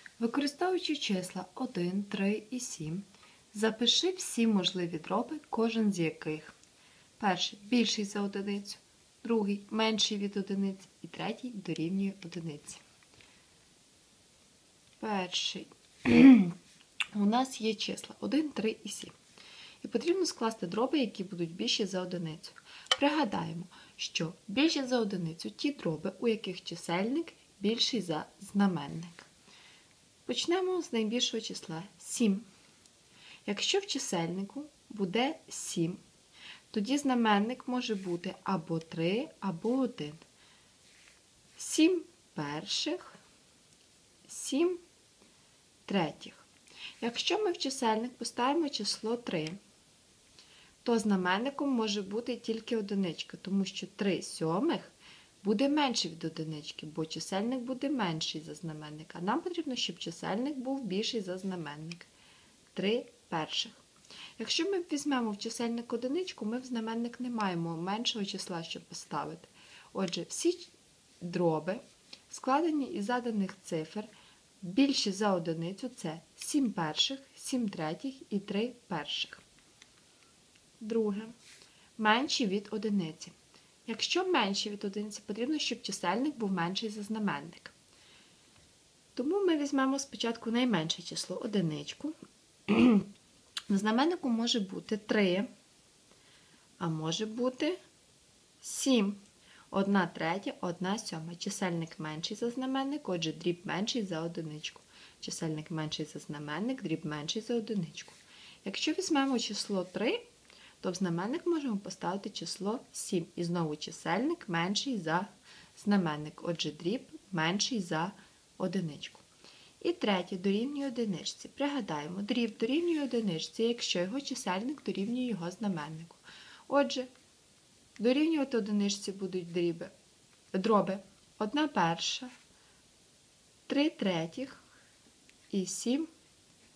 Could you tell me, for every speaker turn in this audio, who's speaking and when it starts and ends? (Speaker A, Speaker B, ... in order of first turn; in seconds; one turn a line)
Speaker A: 0.2-6.5
Speaker A: 7.2-12.8
Speaker A: 15.0-16.5
Speaker A: 17.1-19.1
Speaker A: 19.8-29.3
Speaker A: 30.3-32.4
Speaker A: 33.5-36.0
Speaker A: 36.7-40.2
Speaker A: 41.6-43.2
Speaker A: 44.3-44.8
Speaker A: 45.9-46.5
Speaker A: 47.0-49.6
Speaker A: 50.8-62.1
Speaker A: 62.7-63.8
Speaker A: 64.4-74.1
Speaker A: 74.6-79.4
Speaker A: 80.8-81.3
Speaker A: 82.0-83.3
Speaker A: 83.9-87.8
Speaker A: 89.2-92.1
Speaker A: 92.7-93.1
Speaker A: 93.7-95.5
Speaker A: 96.8-97.8
Speaker A: 98.6-110.2
Speaker A: 110.8-119.2
Speaker A: 119.8-127.1
Speaker A: 128.0-129.9
Speaker A: 130.5-132.3
Speaker A: 133.7-134.6
Speaker A: 135.5-136.1